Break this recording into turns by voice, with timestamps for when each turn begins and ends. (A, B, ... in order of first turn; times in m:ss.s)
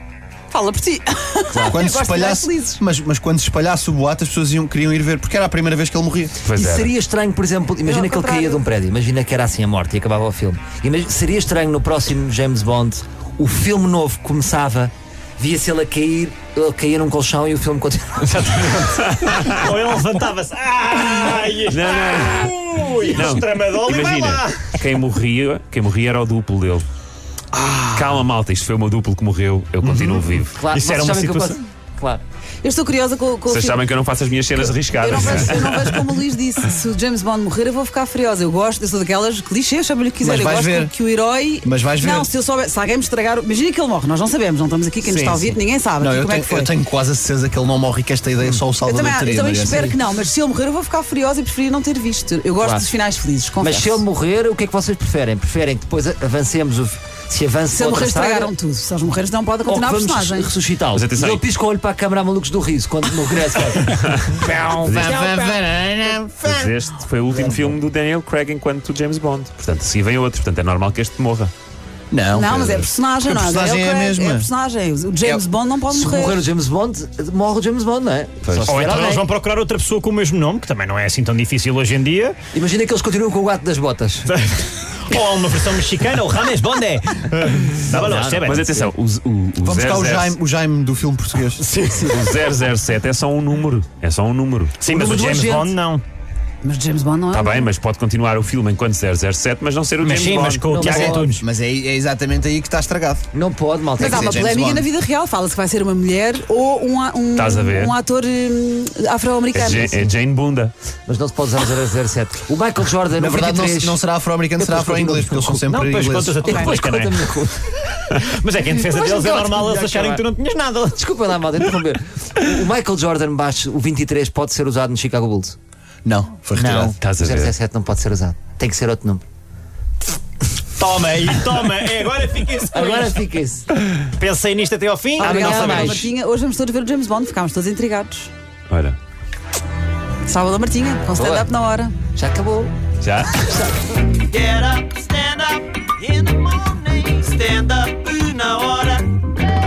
0:00.5-0:02.8 A
0:01.6-0:06.4 B
0:06.4-0:06.9 C
0:06.5-0:18.8 D
0:07.8-0:08.6 A
0:18.2-0:18.8 E
0:18.8-0:19.7 C
0:19.6-0:24.7 E
0:21.7-0:26.8 C
0:27.8-0:30.6 C
0:29.8-0:30.2 E
0:30.5-0:32.2 D
0:30.7-0:31.4 E
0:31.1-0:31.5 F
0:32.6-0:33.8 A
0:33.5-0:36.1 C
0:34.6-0:46.7 A
0:40.2-0:40.9 B
0:41.6-0:42.3 B
0:45.1-0:45.4 D
0:46.0-0:49.9 B
0:48.8-0:54.0 A
0:52.6-0:52.9 D
0:53.6-0:58.5 D
0:57.7-1:00.5 A
0:59.7-1:05.1 D
1:00.9-1:01.4 C
1:03.8-1:05.3 C
1:04.8-1:06.7 B
1:06.4-1:11.5 C
1:12.1-1:14.5 B
1:12.3-1:16.4 A
1:15.9-1:19.3 D
1:18.4-1:18.9 C
1:18.7-1:22.4 E
1:22.5-1:24.3 D
1:24.3-1:28.6 E
1:27.9-1:28.9 D
1:27.9-1:30.4 C
1:29.6-1:31.6 B
1:31.7-1:32.2 E
1:32.1-1:34.8 C
1:34.8-1:36.0 E
1:34.8-1:35.7 D
1:36.6-1:37.7 A
1:37.3-1:40.7 C
1:40.0-1:41.4 E
1:40.7-1:41.3 D
1:40.8-1:43.3 B
1:43.3-1:44.4 D
1:44.0-1:50.1 A
1:44.0-1:44.9 B
1:47.4-1:48.0 C
1:49.5-1:50.7 C
1:51.1-1:54.0 D
1:53.2-1:56.5 B
1:54.6-1:55.7 D
1:55.7-1:57.3 E
1:56.4-1:57.9 D
1:56.5-1:56.8 A
1:58.3-2:01.0 E
1:59.7-2:00.1 F
2:00.9-2:05.6 D
2:06.0-2:07.0 B
2:06.6-2:09.2 D
2:07.0-2:07.6 C
2:10.8-2:13.2 E
2:12.7-2:13.7 D
2:14.1-2:16.0 E
2:15.2-2:16.1 D
2:15.2-2:18.3 A
2:18.7-2:19.0 C
2:20.2-2:21.9 A
2:22.1-2:22.8 D
2:23.0-2:23.5 C
2:23.4-2:23.7 D
2:24.5-2:29.2 F